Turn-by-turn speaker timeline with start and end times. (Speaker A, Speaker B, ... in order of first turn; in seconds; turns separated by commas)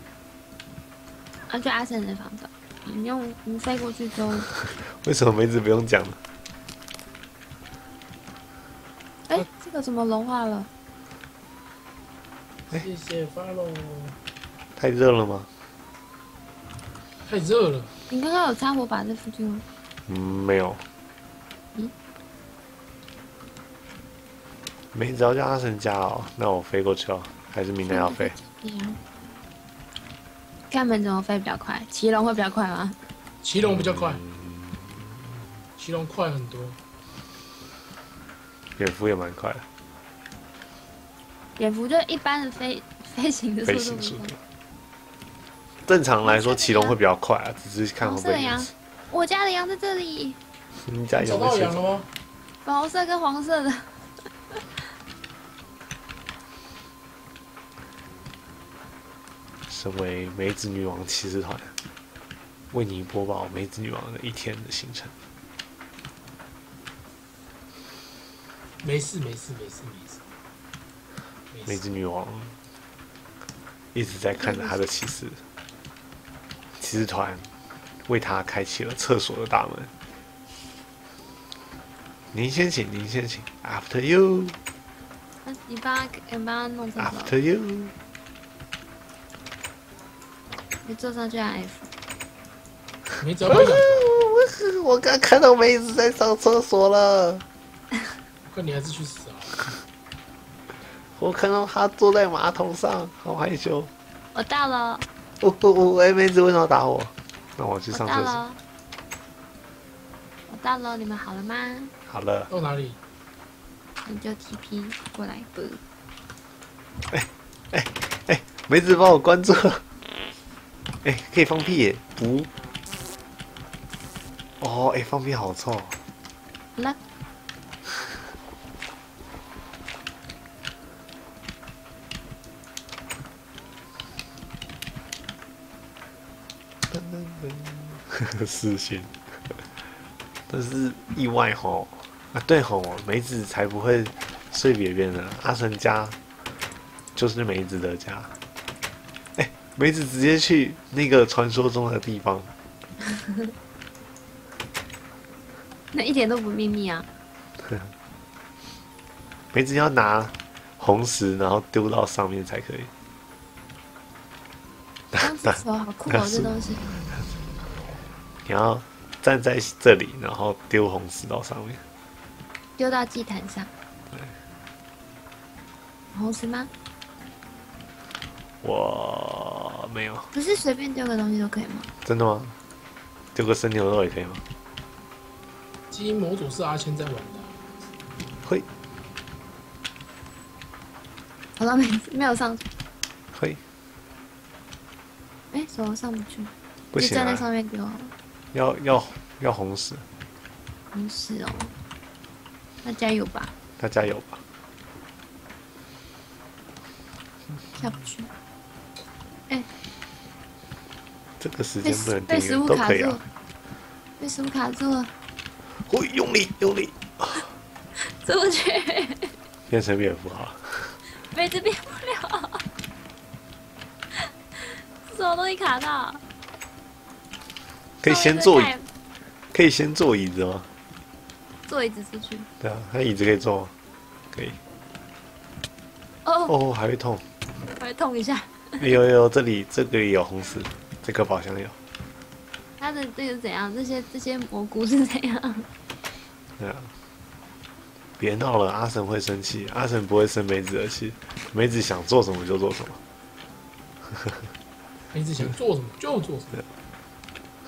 Speaker A: 1.5-4.5, Speaker B: 4.6-6.2, Speaker A: 9.3-10.7, Speaker C: 12.7-14.2, Speaker B: 14.8-15.5, Speaker C: 17.3-17.9, Speaker A: 18.1-19.6, Speaker B: 20.1-20.9, Speaker B: 24.9-28.4, Speaker A: 27.8-29.0, Speaker A: 30.7-33.0, Speaker C: 33.4-34.2, Speaker B: 33.6-35.1, Speaker C: 35.8-36.8, Speaker B: 38.8-39.6, Speaker A: 41.6-44.3, Speaker B: 43.7-44.4, Speaker B: 45.9-48.7, Speaker A: 46.2-47.0, Speaker A: 48.0-50.4, Speaker B: 50.8-51.8, Speaker C: 51.2-52.1, Speaker A: 52.6-54.6, Speaker B: 59.7-61.7, Speaker B: 62.7-65.1, Speaker C: 68.8-70.2, Speaker C: 71.5-71.8, Speaker B: 71.7-72.5, Speaker B: 73.9-75.4, Speaker A: 74.4-74.9, Speaker B: 76.8-77.5, Speaker B: 78.1-79.9, Speaker B: 82.3-84.6, Speaker A: 85.5-87.4, Speaker B: 87.0-87.9, Speaker A: 90.8-91.9, Speaker C: 93.2-94.1, Speaker B: 93.5-97.4, Speaker C: 98.5-99.7, Speaker B: 101.2-103.9, Speaker A: 104.3-105.1, Speaker B: 105.4-108.4, Speaker A: 107.9-108.6, Speaker A: 110.5-111.9, Speaker B: 112.1-112.5, Speaker C: 112.5-113.0, Speaker A: 114.0-115.8, Speaker B: 117.1-119.8, Speaker B: 121.0-122.5, Speaker B: 124.6-126.0, Speaker B: 136.9-139.6, Speaker B: 140.5-146.2, Speaker B: 147.2-148.3, Speaker B: 149.4-152.5, Speaker A: 155.9-157.1, Speaker B: 157.6-157.9, Speaker B: 159.5-162.9, Speaker B: 165.1-166.5, Speaker A: 165.2-166.9, Speaker B: 168.4-171.8, Speaker A: 172.8-173.7, Speaker A: 176.1-176.7, Speaker B: 178.6-180.3, Speaker A: 180.3-181.9, Speaker B: 182.1-182.6, Speaker B: 183.3-184.4, Speaker C: 185.9-187.7, Speaker A: 191.6-192.6, Speaker B: 193.3-193.6, Speaker A: 195.5-198.1, Speaker B: 196.9-197.5, Speaker B: 198.5-200.1, Speaker A: 200.9-201.7, Speaker A: 202.8-203.5, Speaker B: 203.8-204.4, Speaker A: 207.8-208.3, Speaker B: 211.4-213.2, Speaker A: 211.8-213.2, Speaker A: 214.2-215.1, Speaker B: 215.8-217.5, Speaker A: 218.0-219.3, Speaker B: 219.7-221.0, Speaker A: 221.1-222.7, Speaker A: 224.1-226.2, Speaker B: 228.0-228.7, Speaker A: 228.0-228.9, Speaker B: 229.5-230.7, Speaker A: 231.7-232.5, Speaker B: 232.6-233.7, Speaker B: 234.3-234.6, Speaker A: 236.2-236.5, Speaker B: 236.5-237.2, Speaker A: 237.6-238.9, Speaker B: 238.8-241.8, Speaker A: 242.8-245.7, Speaker B: 246.6-246.9, Speaker B: 248.2-253.0, Speaker C: 255.1-256.6